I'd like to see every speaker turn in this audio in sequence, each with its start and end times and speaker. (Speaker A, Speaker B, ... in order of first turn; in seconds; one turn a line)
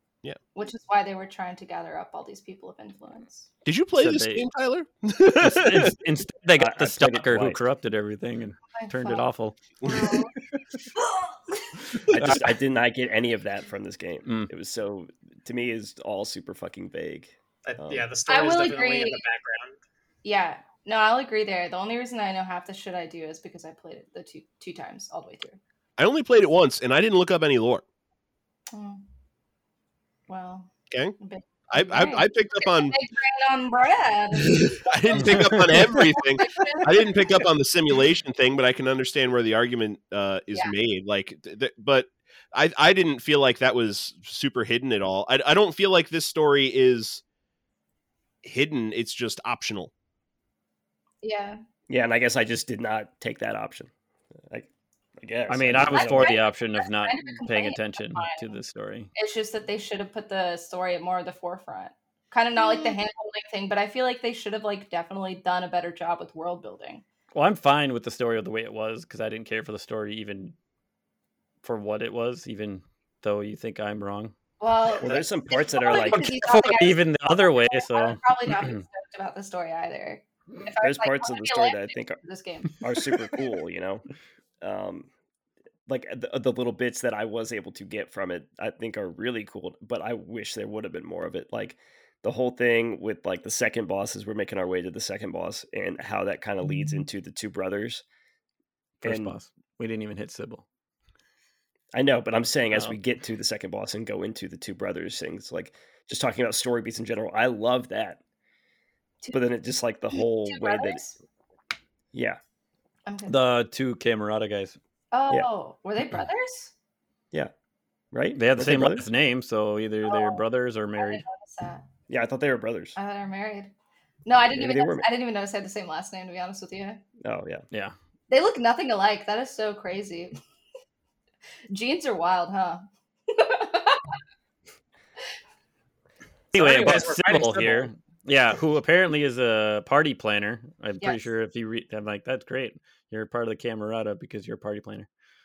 Speaker A: 0.5-3.5
Speaker B: 3.6-6.0
Speaker C: 4.0-4.5
Speaker C: 5.4-9.6
Speaker D: 6.6-7.6
Speaker A: 8.8-9.3
Speaker A: 9.8-10.3
Speaker A: 10.9-12.0
Speaker D: 12.1-18.1
Speaker C: 12.1-12.6
Speaker E: 17.6-19.8
Speaker A: 18.3-19.2
Speaker A: 20.2-25.6
Speaker B: 26.0-27.8
Speaker A: 28.7-29.0
Speaker A: 30.3-37.5
Speaker B: 30.9-31.2
Speaker B: 31.7-33.0
Speaker B: 34.4-47.2
Speaker C: 35.2-36.0
Speaker B: 48.4-49.9
Speaker A: 51.2-51.6
Speaker D: 51.9-53.9
Speaker D: 54.5-56.4
Speaker C: 55.5-59.1
Speaker A: 55.8-58.5
Speaker A: 59.1-67.0
Speaker C: 67.3-70.5
Speaker C: 71.6-74.3
Speaker A: 74.6-82.9
Speaker D: 75.0-76.5
Speaker C: 76.1-78.8
Speaker D: 80.8-82.2
Speaker D: 82.8-84.0
Speaker D: 84.6-85.1
Speaker D: 85.9-98.0
Speaker C: 99.0-100.7
Speaker D: 99.0-99.4
Speaker D: 101.9-108.2
Speaker C: 102.7-103.0
Speaker D: 109.3-111.0
Speaker A: 110.1-111.2
Speaker D: 112.1-112.4
Speaker A: 113.1-113.4
Speaker C: 113.3-114.8
Speaker A: 115.1-116.7
Speaker D: 118.1-119.1
Speaker C: 118.3-121.2
Speaker A: 120.0-120.4
Speaker A: 121.0-121.8
Speaker D: 122.1-123.0
Speaker A: 123.0-123.7
Speaker A: 124.2-127.0
Speaker D: 124.5-125.1
Speaker D: 127.2-127.6
Speaker A: 128.3-130.3
Speaker A: 131.7-134.1
Speaker E: 136.5-137.9
Speaker C: 136.5-145.1